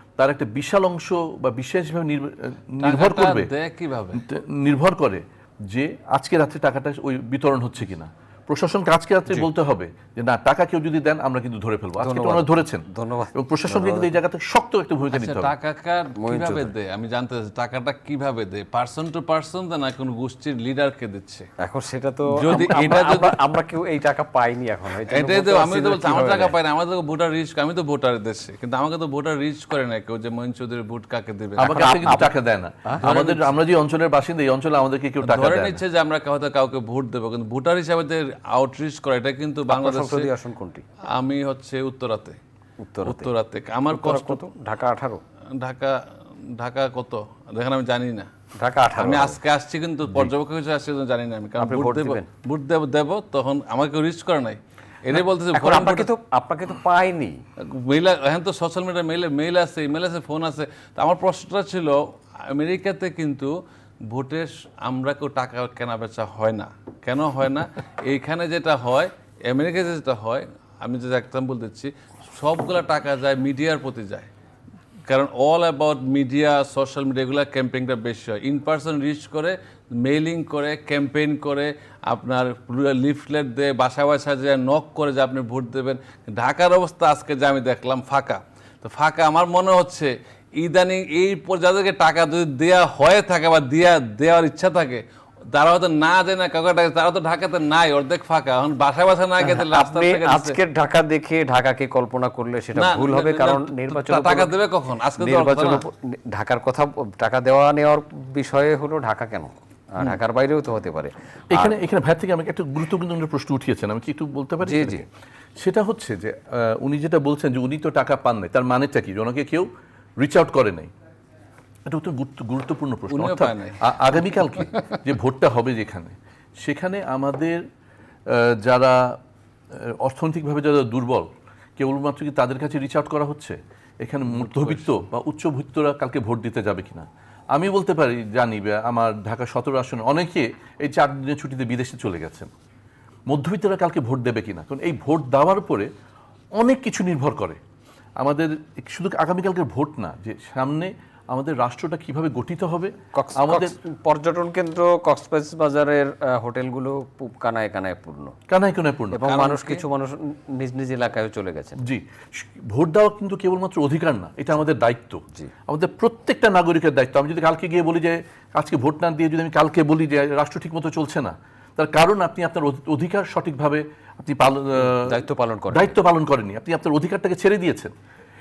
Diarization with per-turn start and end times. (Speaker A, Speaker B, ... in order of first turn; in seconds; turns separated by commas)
Speaker A: 0.2-3.5, Speaker B: 2.8-4.2, Speaker A: 4.2-15.5, Speaker C: 12.0-14.2, Speaker B: 15.1-21.5, Speaker C: 16.2-16.7, Speaker C: 21.6-26.6, Speaker B: 22.3-23.4, Speaker B: 25.1-32.2, Speaker A: 31.6-35.8, Speaker C: 31.7-32.3, Speaker C: 32.9-33.5, Speaker B: 35.2-40.3, Speaker C: 39.7-40.8, Speaker B: 41.1-42.4, Speaker C: 42.8-43.3, Speaker B: 43.0-44.4, Speaker C: 43.9-45.2, Speaker B: 45.6-48.3, Speaker C: 48.5-49.4, Speaker B: 49.0-56.1, Speaker C: 51.6-52.3, Speaker C: 55.1-57.4, Speaker B: 57.6-63.5, Speaker B: 64.0-74.3, Speaker B: 75.1-100.6, Speaker C: 99.4-104.5, Speaker B: 102.7-105.8, Speaker C: 105.2-111.8, Speaker A: 111.5-115.0, Speaker C: 114.6-115.0, Speaker A: 115.6-119.7, Speaker A: 120.2-120.9, Speaker A: 121.8-127.6, Speaker B: 123.1-123.8, Speaker A: 128.3-129.2, Speaker A: 129.7-142.5, Speaker B: 134.3-134.9, Speaker A: 143.3-145.9, Speaker A: 146.6-147.6, Speaker A: 148.2-153.7, Speaker C: 153.1-158.3, Speaker A: 158.5-159.2, Speaker C: 159.1-161.8, Speaker B: 159.2-159.8, Speaker A: 161.8-177.9, Speaker C: 174.8-176.0